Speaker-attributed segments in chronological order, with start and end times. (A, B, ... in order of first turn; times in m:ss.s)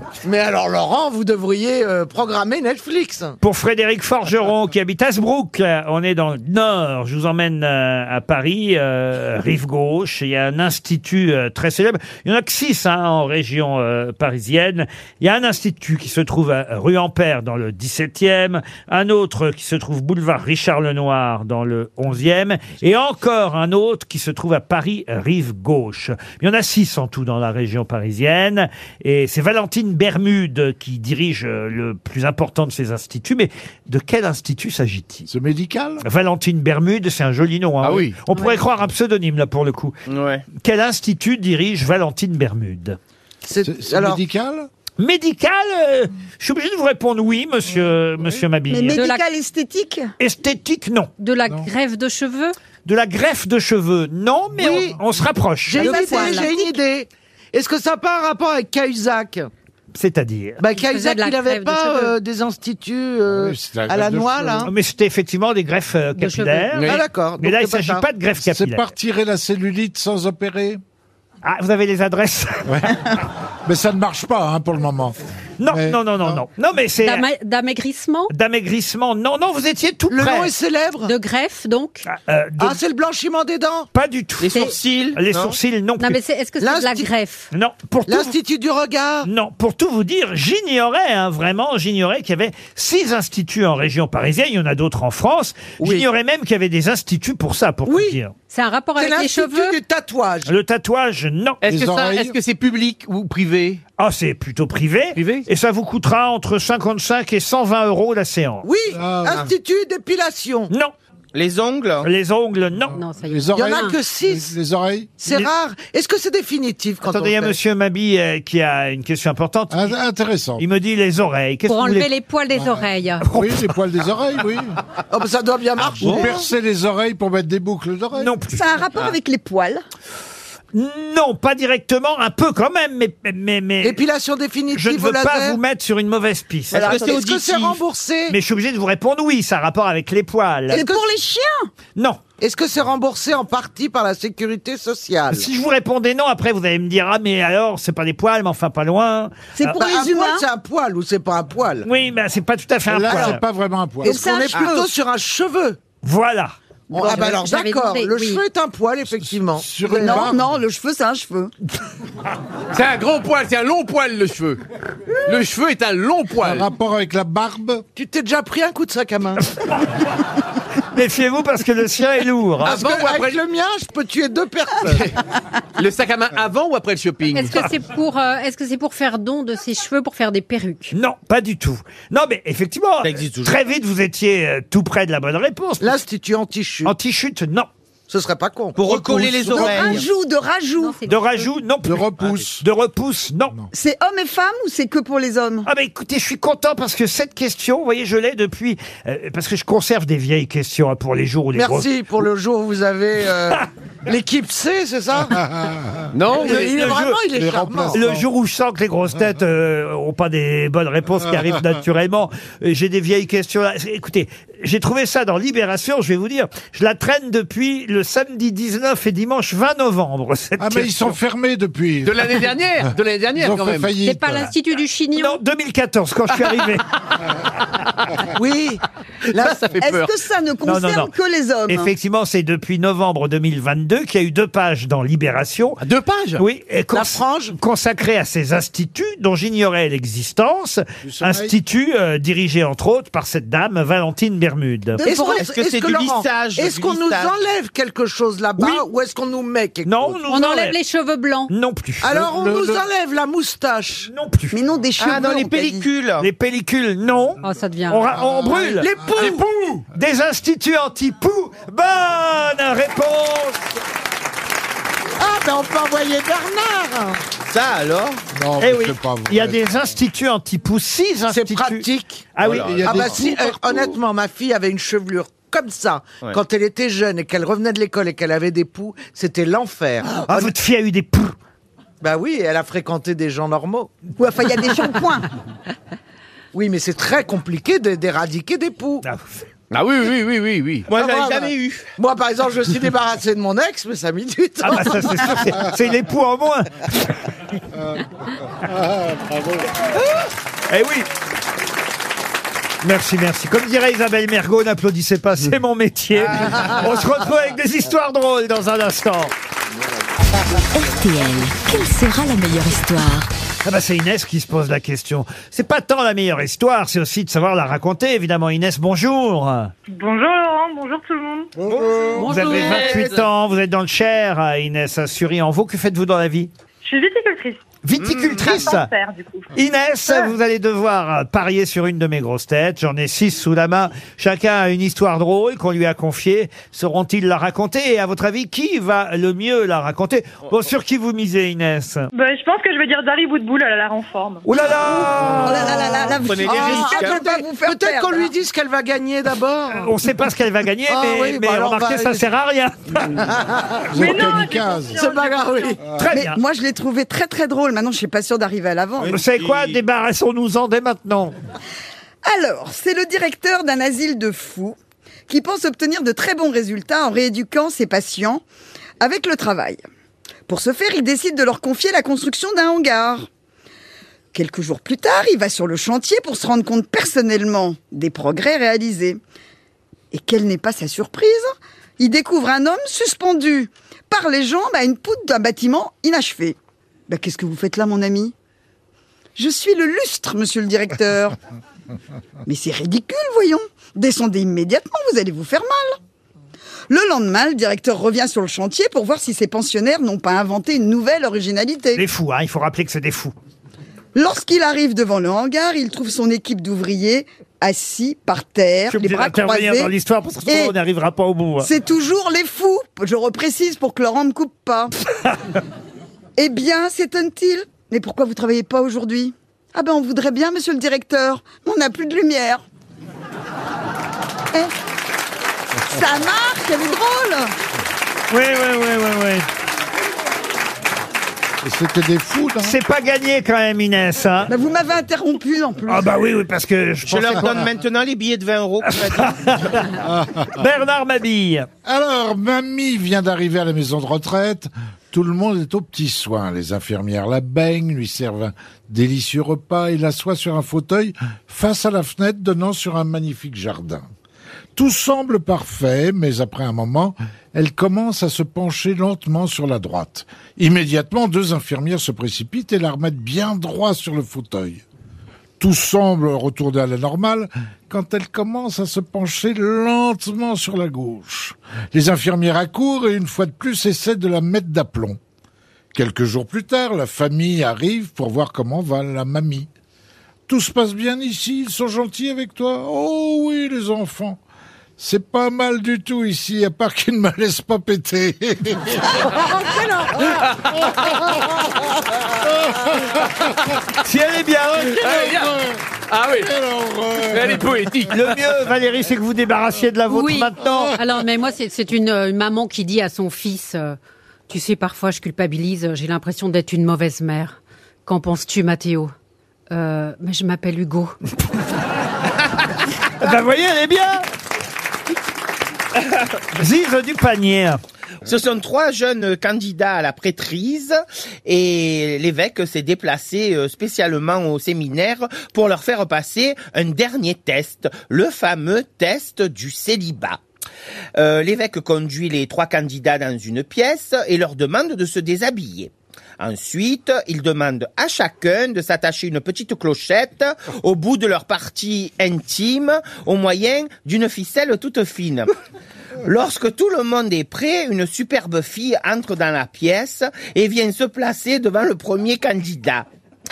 0:00.2-0:03.4 A
0:03.4-0:35.3 B
0:35.3-0:36.0 C
0:36.0-0:40.0 B
0:37.8-0:38.2 D
0:38.3-0:38.6 E
0:40.1-0:40.5 F
0:40.5-0:43.0 B
0:43.4-0:44.2 A
0:43.6-0:44.7 C
0:45.0-0:49.0 B
0:48.7-0:50.1 G
0:48.9-0:49.2 E
0:50.2-0:51.1 B
0:51.2-0:52.6 E
0:52.9-0:56.2 B
0:54.6-0:55.0 A
0:55.7-0:59.5 A
0:55.8-0:56.6 E
0:56.1-0:56.7 G
1:00.0-1:00.6 B
1:00.6-1:04.7 A
1:00.7-1:02.2 E
1:03.3-1:04.7 C
1:04.6-1:08.8 B
1:06.2-1:06.9 E
1:06.8-1:07.0 D
1:06.9-1:08.1 A
1:08.4-1:10.8 C
1:11.4-1:13.2 B
1:12.7-1:13.0 C
1:13.7-1:16.4 C
1:15.6-1:17.2 B
1:17.0-1:18.3 E
1:18.3-1:20.5 B
1:20.1-1:21.1 A
1:21.0-1:22.1 E
1:22.1-1:22.8 B
1:22.6-1:23.9 A
1:23.9-1:26.2 B
1:24.4-1:25.6 F
1:26.0-1:27.5 E
1:26.6-1:27.1 A
1:27.5-1:28.3 B
1:28.1-1:29.3 A
1:29.2-1:38.3 B
1:35.8-1:36.1 A
1:37.9-1:38.2 A
1:38.5-1:39.8 E
1:39.0-1:40.5 A
1:40.5-1:41.6 B
1:41.6-1:43.8 D
1:41.7-1:42.4 C
1:44.0-1:48.6 B
1:45.2-1:45.5 D
1:48.6-1:50.7 A
1:48.9-1:49.5 C
1:51.4-1:52.1 F
1:52.0-1:53.0 B
1:52.9-1:54.0 E
1:53.2-1:55.4 C
1:53.5-1:54.6 A
1:55.2-1:57.6 A
1:57.1-1:59.9 B
1:59.7-2:00.6 C
2:00.6-2:02.1 B
2:01.7-2:03.3 E
2:02.6-2:04.8 C
2:03.3-2:03.6 B
2:05.1-2:06.5 A
2:05.8-2:08.3 C
2:08.2-2:08.6 B
2:08.5-2:09.8 G
2:10.7-2:14.0 B
2:13.8-2:15.6 A
2:14.7-2:16.9 B
2:16.7-2:17.8 F
2:16.8-2:17.2 G
2:16.8-2:18.4 A
2:18.3-2:20.8 B
2:20.7-2:21.0 A
2:20.7-2:21.7 G
2:22.0-2:22.2 B
2:22.4-2:25.5 A
2:25.3-2:29.8 B
2:29.6-2:30.5 G
2:29.8-2:31.9 A
2:31.8-2:33.4 B
2:32.9-2:34.2 C
2:33.1-2:33.4 A
2:34.0-2:35.8 A
2:34.0-2:34.9 G
2:36.0-2:36.6 B
2:36.9-2:40.3 A
2:37.0-2:38.4 E
2:39.1-2:40.5 C
2:39.9-2:41.5 G
2:42.7-2:44.6 D
2:45.3-2:46.7 D
2:46.4-2:47.8 C
2:48.0-2:49.5 A
2:50.9-2:52.8 B
2:52.6-2:53.4 D
2:52.6-2:55.1 A
2:54.8-2:55.2 D
2:55.8-2:57.6 D
2:57.3-3:01.0 E
3:00.9-3:06.0 B
3:03.0-3:03.6 F
3:05.8-3:07.0 A
3:06.9-3:07.7 B
3:08.1-3:09.2 A
3:08.8-3:10.1 F
3:09.3-3:09.9 C
3:09.5-3:11.0 G
3:10.8-3:11.5 E
3:11.1-3:13.6 B
3:11.8-3:12.6 C
3:13.7-3:15.7 G
3:15.7-3:21.9 B
3:21.5-3:25.4 A
3:25.4-3:26.1 C
3:26.1-3:26.8 D
3:26.3-3:28.0 A
3:26.3-3:27.2 B
3:27.3-3:28.3 C
3:27.9-3:41.1 B
3:40.6-3:42.5 C
3:42.0-3:43.9 D
3:43.4-3:44.5 C
3:44.0-3:45.4 E
3:45.2-3:46.9 B
3:48.3-3:49.8 A
3:49.3-3:50.1 D
3:49.8-3:51.9 G
3:50.6-3:51.1 B
3:51.7-3:55.8 B
3:55.8-3:56.4 D
3:56.4-4:05.0 B
3:56.9-3:57.6 A
4:01.0-4:01.5 C
4:05.0-4:05.4 G
4:05.0-4:10.2 A
4:05.3-4:07.3 F
4:09.8-4:10.8 B
4:10.3-4:11.5 E
4:11.5-4:12.2 B
4:12.0-4:14.1 A
4:12.2-4:12.8 C
4:14.1-4:14.6 B
4:14.5-4:15.9 G
4:15.0-4:16.3 F
4:16.2-4:19.3 B
4:17.4-4:18.1 E
4:18.2-4:19.4 C
4:18.7-4:19.5 A
4:19.9-4:23.7 B
4:25.2-4:27.2 A
4:27.5-4:28.2 F
4:28.3-4:30.0 C
4:28.6-4:33.3 B
4:31.3-4:40.5 A
4:32.4-4:33.3 F
4:32.5-4:33.3 C
4:40.2-4:41.4 B
4:42.0-4:43.9 A
4:44.2-4:45.3 G
4:46.5-4:49.0 A
4:49.0-4:49.4 B
4:49.7-4:50.9 D
4:50.9-4:51.9 F
4:51.0-4:55.6 A
4:54.6-4:56.9 B
4:58.7-4:59.6 C
5:00.7-5:01.1 B
5:02.8-5:09.3 B
5:10.7-5:13.3 H
5:13.6-5:19.7 B
5:19.9-5:21.5 I
5:21.6-5:22.2 C
5:21.6-5:23.2 F
5:22.2-5:22.9 E
5:22.2-5:26.5 B
5:26.8-5:27.8 I
5:27.8-5:28.9 B
5:28.0-5:28.7 F
5:28.4-5:29.5 I
5:29.5-5:42.1 B
5:42.1-5:44.5 I
5:44.4-5:46.1 B
5:45.4-5:48.3 G
5:46.1-5:47.3 F
5:46.4-5:49.9 A
5:49.7-5:53.3 B
5:50.9-5:52.3 A
5:53.3-5:53.9 A
5:53.9-5:55.0 C
5:53.9-5:55.8 I
5:55.0-5:55.8 A
5:55.9-5:56.4 B
5:56.1-5:59.2 G
5:59.1-6:01.3 B
6:02.2-6:04.8 G
6:05.3-6:08.4 G
6:09.0-6:09.8 G
6:10.5-6:13.3 G
6:14.3-6:19.2 G
6:20.1-6:26.6 G
6:27.1-6:28.3 G
6:29.4-6:31.4 G
6:32.5-6:36.0 G
6:36.9-6:42.0 G
6:42.0-6:43.3 B
6:44.2-6:49.9 G
6:48.9-6:51.7 B
6:50.5-6:50.8 G
6:51.6-6:54.9 G
6:56.4-7:02.6 G
7:05.8-7:07.5 G
7:08.3-7:09.5 B
7:11.6-7:12.8 C
7:12.6-7:14.5 B
7:14.5-7:16.3 G
7:15.9-7:17.7 B
7:17.1-7:19.9 F
7:18.8-7:19.9 B
7:20.0-7:20.5 C
7:20.5-7:21.7 B
7:21.8-7:34.1 C
7:34.8-7:44.8 C
7:45.6-7:55.2 C
7:55.9-7:59.7 C
8:00.5-8:04.4 C
8:05.0-8:09.8 C
8:10.1-8:11.2 D
8:11.0-8:11.3 C
8:12.4-8:13.4 C
8:14.0-8:15.0 B
8:14.8-8:15.8 C
8:15.0-8:16.6 D
8:16.4-8:17.9 C
8:17.3-8:18.2 D
8:18.1-8:21.0 B
8:20.1-8:24.0 E
8:24.5-8:29.1 E
8:29.7-8:31.2 E
8:33.2-8:34.3 B
8:36.6-8:37.8 B
8:38.2-8:50.4 F
8:51.2-9:05.5 F
9:06.2-9:13.1 F